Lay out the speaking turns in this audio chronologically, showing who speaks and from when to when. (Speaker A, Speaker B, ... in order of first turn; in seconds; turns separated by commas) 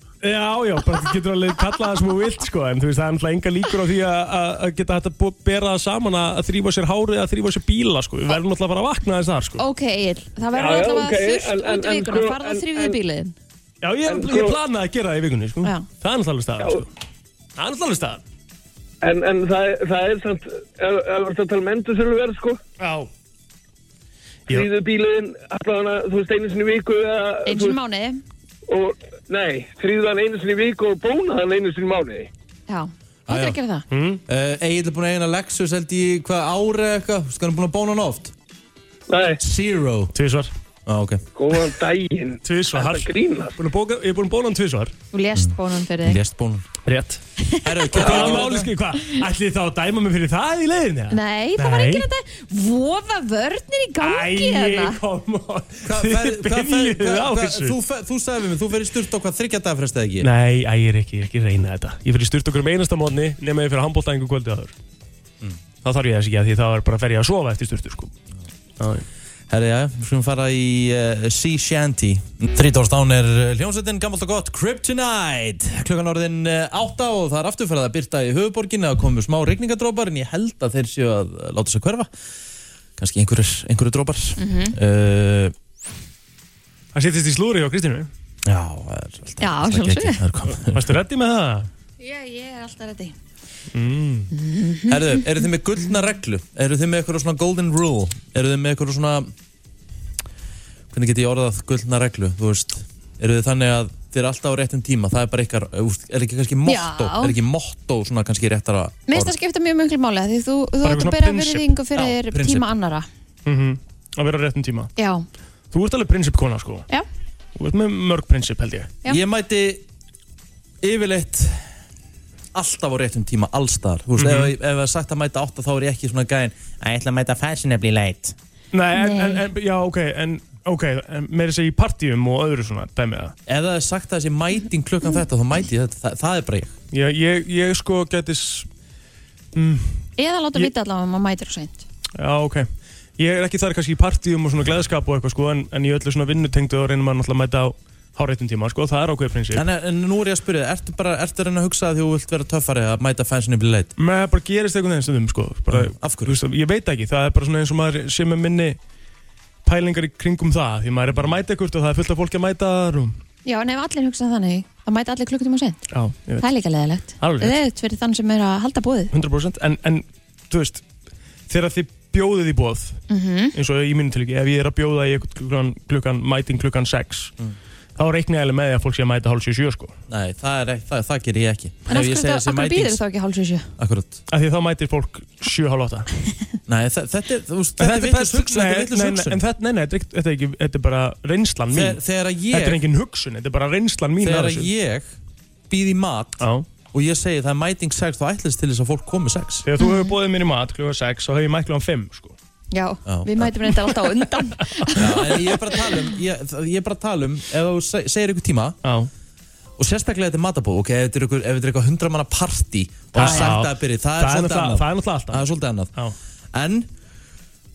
Speaker A: 0.2-9.6, Speaker B: 9.6-13.3, Speaker C: 10.6-12.9, Speaker A: 13.8-16.9, Speaker C: 14.1-14.6, Speaker A: 17.6-18.2, Speaker C: 19.0-22.6, Speaker A: 22.8-23.1, Speaker C: 24.5-27.8, Speaker B: 27.4-28.2, Speaker C: 28.7-32.3, Speaker B: 32.7-33.9, Speaker D: 33.3-33.6, Speaker A: 33.9-34.2, Speaker D: 34.3-38.3, Speaker D: 39.4-40.1, Speaker A: 40.1-40.5, Speaker D: 40.9-41.2, Speaker C: 41.6-42.1, Speaker A: 42.4-44.9, Speaker B: 45.1-46.2, Speaker D: 45.4-46.7, Speaker A: 46.9-47.2, Speaker B: 47.4-48.0, Speaker D: 47.6-48.7, Speaker A: 47.9-52.1, Speaker B: 51.1-55.0, Speaker A: 54.0-57.8, Speaker D: 55.9-60.3, Speaker A: 60.2-64.7, Speaker A: 65.8-68.1, Speaker A: 68.8-69.0, Speaker D: 69.5-82.1, Speaker D: 83.0-85.5, Speaker B: 84.4-84.8, Speaker A: 87.0-88.1, Speaker D: 88.5-91.0, Speaker B: 89.4-90.2, Speaker A: 90.6-91.7, Speaker B: 92.0-93.2, Speaker A: 93.7-94.3, Speaker B: 94.3-95.2, Speaker D: 94.9-99.3, Speaker D: 100.9-109.4, Speaker B: 106.6-107.4, Speaker B: 109.1-113.1, Speaker A: 110.8-111.8, Speaker D: 112.0-112.7, Speaker A: 113.5-114.9, Speaker B: 115.0-115.3, Speaker A: 115.7-116.9, Speaker A: 117.6-118.9, Speaker D: 119.1-119.8, Speaker D: 120.8-121.7, Speaker D: 122.5-128.4, Speaker A: 124.2-124.5, Speaker A: 128.7-133.3, Speaker B: 128.9-129.5, Speaker D: 133.5-136.7, Speaker A: 136.9-138.7, Speaker A: 139.6-140.7, Speaker B: 140.2-141.8, Speaker A: 142.2-149.6, Speaker D: 149.5-153.9, Speaker A: 154.0-158.8, Speaker D: 155.7-156.4, Speaker A: 159.6-163.2, Speaker B: 163.4-165.8, Speaker A: 165.9-166.5, Speaker B: 166.4-169.1, Speaker A: 167.2-167.6, Speaker A: 169.1-170.8, Speaker A: 171.5-173.0, Speaker B: 173.1-173.6, Speaker A: 173.6-177.3, Speaker A: 178.0-180.0, Speaker D: 180.1-183.0, Speaker B: 181.9-183.7, Speaker D: 183.8-184.2, Speaker A: 184.3-186.1, Speaker D: 186.7-189.4, Speaker A: 187.8-192.0, Speaker D: 191.7-192.8, Speaker A: 192.5-194.7, Speaker D: 194.2-195.1, Speaker D: 195.7-199.7, Speaker A: 196.4-196.7, Speaker A: 199.6-202.4, Speaker B: 199.8-200.1, Speaker B: 202.7-205.4, Speaker D: 203.1-203.5, Speaker D: 205.0-208.8, Speaker A: 208.8-209.1, Speaker D: 209.8-215.9, Speaker A: 213.1-216.1, Speaker B: 213.2-213.5, Speaker D: 216.5-216.9